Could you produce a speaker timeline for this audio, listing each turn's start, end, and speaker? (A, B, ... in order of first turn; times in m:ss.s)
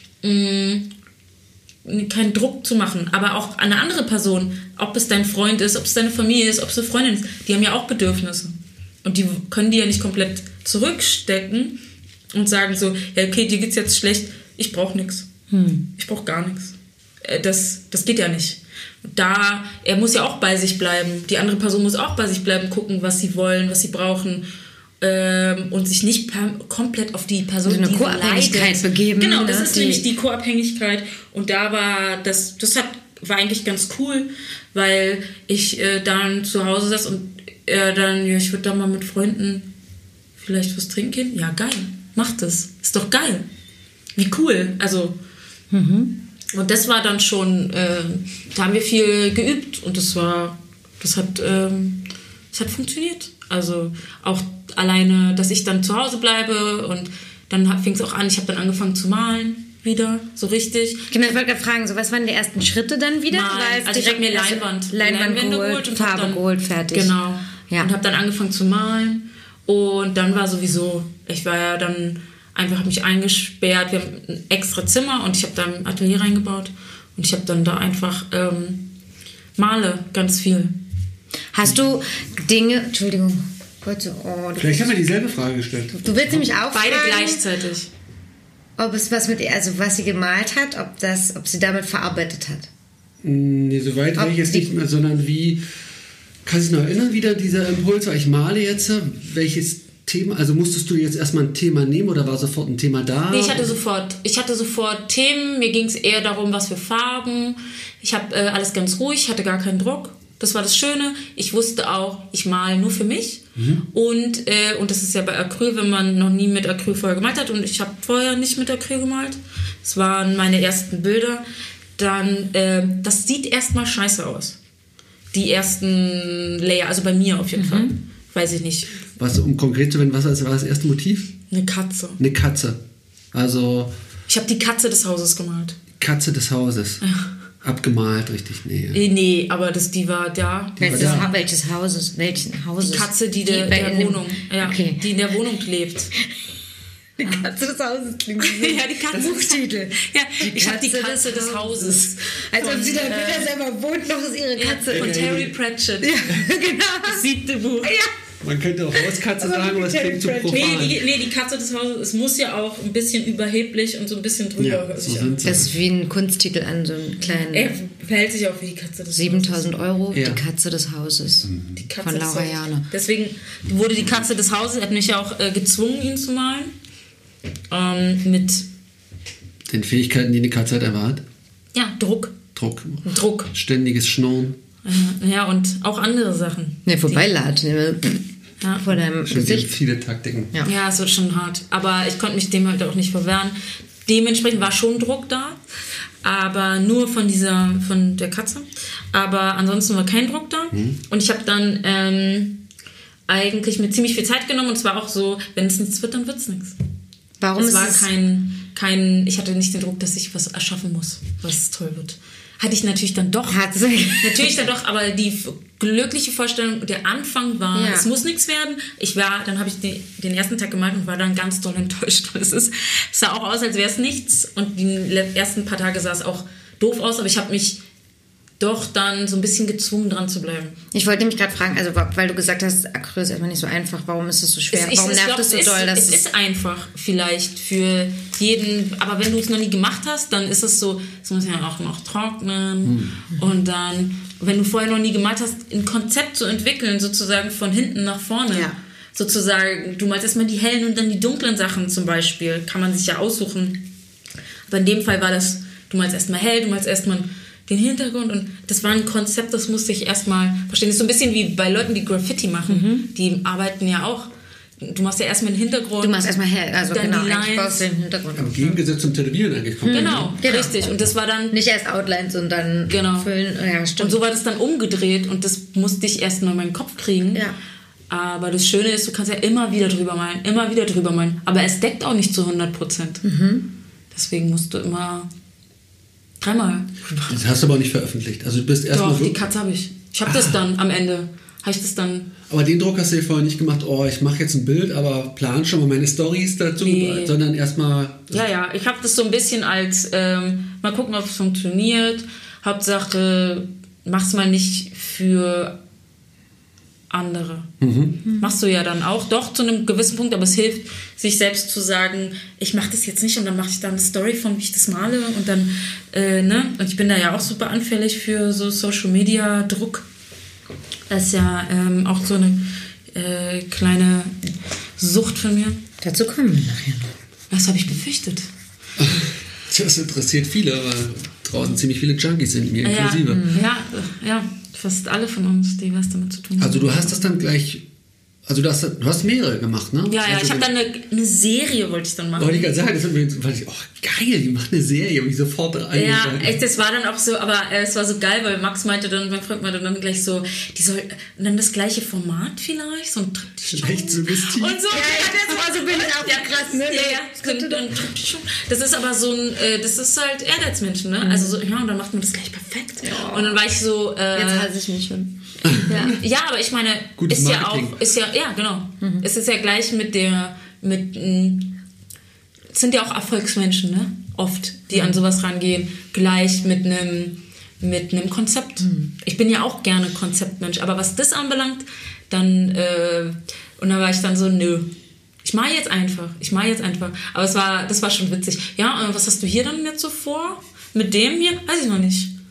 0:00.2-0:00.9 A
0:01.8-0:11.8 A
0:12.3-0:15.3 A
0:15.5-0:15.8 B
0:15.9-0:24.4 A
0:25.0-0:39.7 A
0:27.6-0:30.0 B
0:40.4-0:43.4 A
0:44.2-0:45.2 A
0:45.7-0:46.2 B
0:46.5-1:01.1 A
1:01.1-1:07.1 B
1:03.3-1:18.9 A
1:19.6-1:20.8 A
1:21.5-1:25.0 B
1:24.6-1:26.5 C
1:25.9-1:27.4 B
1:26.7-1:27.9 A
1:28.8-1:32.7 B
1:33.2-1:35.6 C
1:34.1-1:34.7 B
1:36.4-1:43.8 C
1:43.3-2:01.4 A
1:53.6-1:53.8 C
2:02.0-2:04.6 A
2:05.3-2:09.0 A
2:07.6-2:07.9 B
2:09.2-2:11.3 C
2:11.5-2:12.2 A
2:12.2-2:12.8 C
2:13.3-2:13.9 C
2:14.3-2:15.8 A
2:16.0-2:17.0 C
2:17.0-2:17.3 A
2:17.6-2:19.0 C
2:18.9-2:21.3 A
2:20.8-2:21.3 C
2:20.8-2:25.0 B
2:22.8-2:26.1 A
2:27.2-2:35.3 B
2:27.2-2:27.5 A
2:28.4-2:33.5 A
2:34.6-2:36.2 A
2:34.9-2:35.5 C
2:36.0-2:37.3 B
2:37.0-2:38.0 A
2:37.8-2:38.1 B
2:38.4-2:41.0 C
2:38.9-2:40.9 B
2:40.5-2:45.5 A
2:44.6-2:45.7 C
2:45.4-2:47.8 B
2:47.4-2:49.7 A
2:49.1-2:51.5 B
2:50.1-2:50.4 C
2:51.3-2:56.7 A
2:51.4-2:51.8 C
2:52.0-2:52.8 B
2:57.7-2:58.6 A
2:59.7-3:01.2 C
3:01.7-3:02.3 A
3:02.5-3:04.6 C
3:03.0-3:03.5 A
3:04.8-3:07.2 A
3:06.8-3:08.2 B
3:08.6-3:08.9 A
3:08.8-3:09.7 B
3:09.2-3:10.5 C
3:10.6-3:15.6 A
3:16.2-3:22.6 A
3:20.7-3:21.0 C
3:23.3-3:26.7 A
3:27.4-3:28.1 B
3:27.6-3:47.8 A
3:33.5-3:34.5 B
3:37.7-3:38.1 B
3:48.6-3:50.8 A
3:50.9-3:56.2 B
3:54.7-4:13.8 A
4:02.8-4:03.1 C
4:14.7-4:27.9 A
4:22.7-4:23.0 B
4:26.0-4:28.8 B
4:28.4-4:30.3 C
4:29.8-4:30.7 B
4:29.9-4:31.5 A
4:31.5-4:34.2 B
4:32.9-4:33.3 A
4:34.0-4:37.4 A
4:38.1-4:43.2 A
4:43.2-4:43.7 B
4:44.1-4:45.3 A
4:46.4-4:47.4 A
4:47.3-4:49.4 C
4:48.9-4:52.3 A
4:50.2-4:50.6 C
4:52.5-4:58.5 C
4:56.8-4:57.4 A
4:58.3-5:05.8 A
5:07.1-5:07.7 A
5:07.8-5:08.2 C
5:08.4-5:20.0 A
5:21.1-5:25.8 A
5:26.0-5:27.1 B
5:27.5-5:28.5 A
5:29.0-5:33.5 C
5:32.8-5:37.3 A
5:33.2-5:33.6 B
5:36.6-5:37.8 C
5:38.5-5:40.7 C
5:40.1-5:42.9 A
5:42.4-5:46.6 C
5:45.9-6:04.7 A
5:53.7-5:54.8 C
5:54.9-5:57.9 B
6:01.2-6:01.6 B
6:03.0-6:03.6 B
6:04.3-6:06.2 B
6:05.6-6:06.2 C
6:06.0-6:11.8 A
6:07.2-6:08.0 C
6:09.0-6:09.2 B
6:12.7-6:24.9 A
6:14.9-6:15.2 B
6:18.8-6:19.1 B
6:25.4-6:32.3 A